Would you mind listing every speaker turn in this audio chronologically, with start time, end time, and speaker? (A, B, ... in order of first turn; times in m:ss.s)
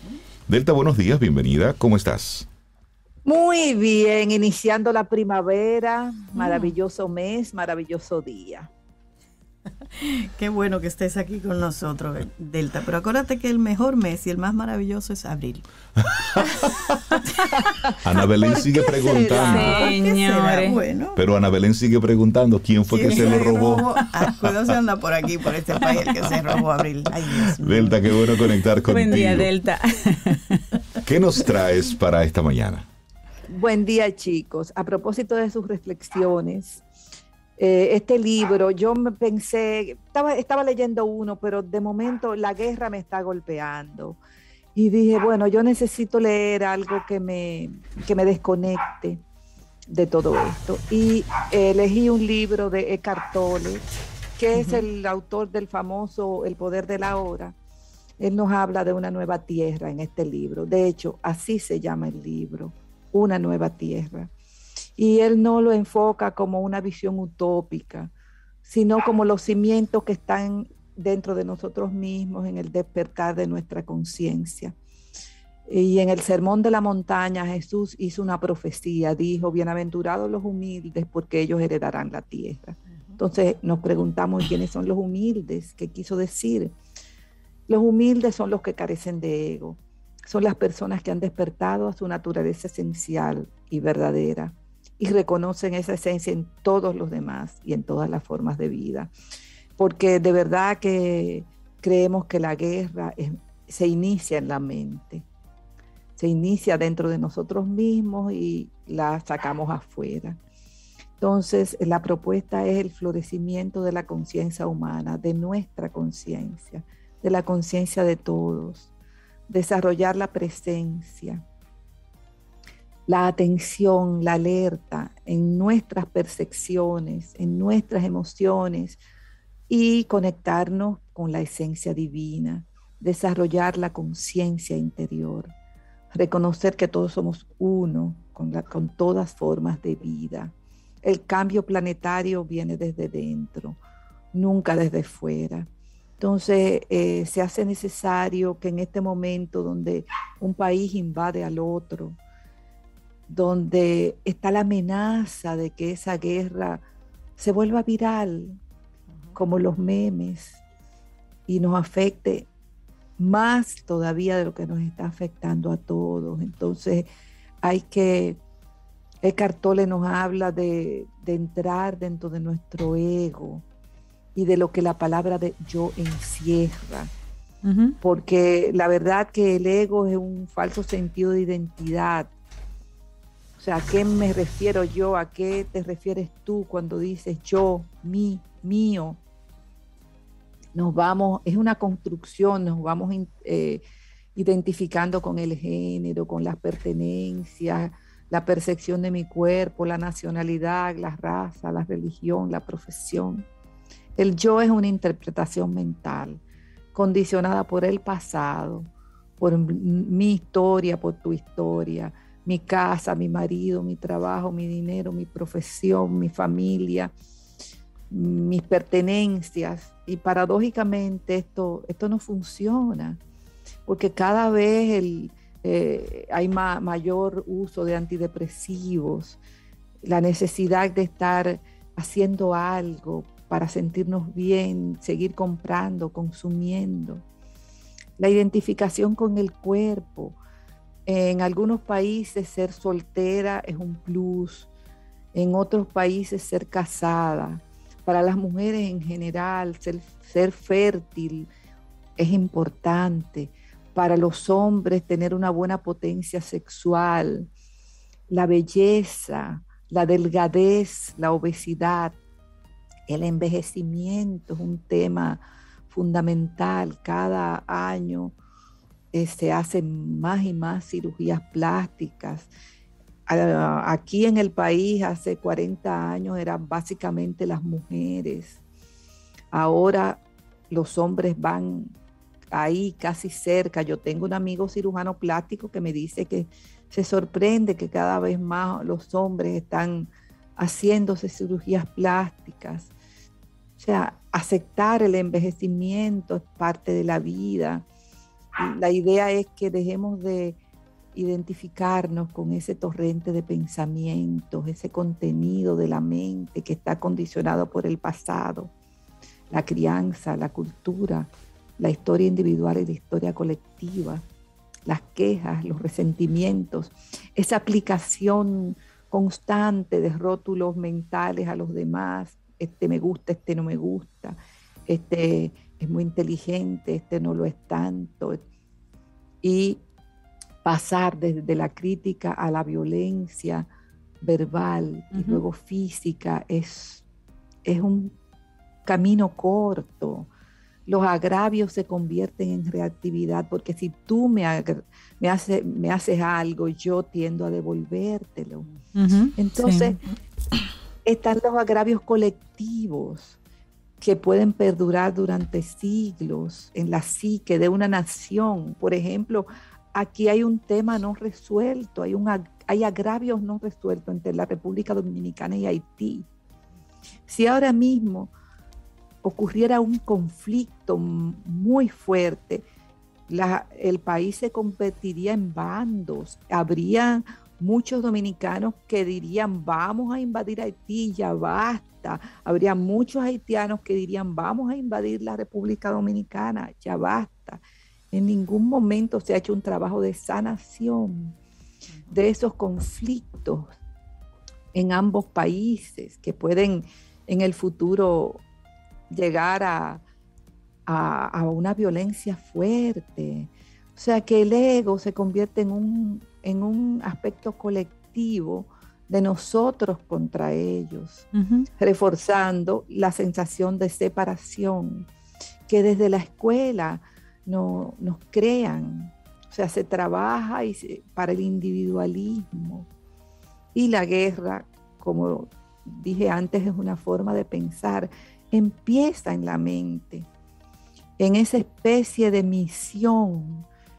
0:00.5-0:02.5 A
0:03.2-0:08.7 B
0:06.4-0:06.7 C
0:10.0-0:15.7 C
0:16.0-0:16.7 A
0:18.0-0:19.9 A
0:18.4-0:21.2 C
0:19.3-0:20.8 D
0:21.2-0:24.0 A
0:22.9-0:28.6 C
0:23.1-0:23.4 D
0:27.6-0:29.5 A
0:28.8-0:30.6 D
0:31.0-0:32.9 A
0:33.5-0:36.8 B
0:37.6-0:44.2 B
0:44.8-0:49.2 B
0:49.9-0:53.9 B
0:54.4-0:57.6 B
0:54.5-0:54.9 D
0:58.2-1:04.3 B
1:05.0-1:08.1 B
1:08.6-1:14.8 B
1:15.7-1:26.8 B
1:27.7-1:39.1 B
1:39.8-1:45.3 B
1:46.2-1:50.4 B
1:51.2-1:58.9 B
1:59.5-2:01.4 B
2:03.1-2:09.0 B
2:09.7-2:15.5 B
2:16.1-2:23.8 B
2:24.3-2:25.7 B
2:26.2-2:32.2 B
2:33.3-2:36.8 B
2:37.4-2:38.6 B
2:39.4-2:40.6 B
2:41.5-2:42.5 B
2:43.2-2:47.1 B
2:47.6-2:48.4 B
2:49.2-2:53.6 B
2:54.4-2:57.1 B
2:57.6-2:58.0 D
2:58.0-3:02.3 B
3:03.6-3:09.2 B
3:10.8-3:13.8 B
3:14.4-3:23.5 B
3:24.2-3:26.4 B
3:26.9-3:37.1 B
3:38.1-3:43.2 B
3:43.9-3:49.4 B
3:50.0-3:57.2 B
3:58.2-4:00.4 B
4:01.1-4:04.7 B
4:05.3-4:11.5 B
4:12.2-4:17.5 B
4:18.3-4:22.2 B
4:23.1-4:28.4 B
4:29.1-4:32.5 B
4:33.3-4:38.6 B
4:39.5-4:42.0 B
4:42.5-4:52.9 B
4:53.8-4:57.9 B
4:58.6-5:00.6 B
5:01.2-5:08.7 B
5:09.5-5:14.3 B
5:14.9-5:28.4 B
5:29.4-5:29.8 B
5:30.6-5:33.7 B
5:34.2-5:37.0 B
5:35.1-5:35.4 D
5:37.7-5:38.2 B
5:38.9-5:40.3 B
5:40.9-5:48.7 B
5:49.0-5:50.0 D
5:49.4-5:50.0 B
5:51.0-5:53.4 B
5:54.0-6:06.3 B
6:07.3-6:08.3 B
6:09.2-6:12.7 B
6:13.3-6:31.4 B
6:32.1-6:33.7 B
6:34.7-6:38.4 B
6:39.1-6:40.0 B
6:40.9-6:51.3 B
6:51.3-6:51.7 D
6:51.8-6:55.1 B
6:55.7-7:02.9 B
7:03.8-7:10.3 B
7:11.2-7:13.7 B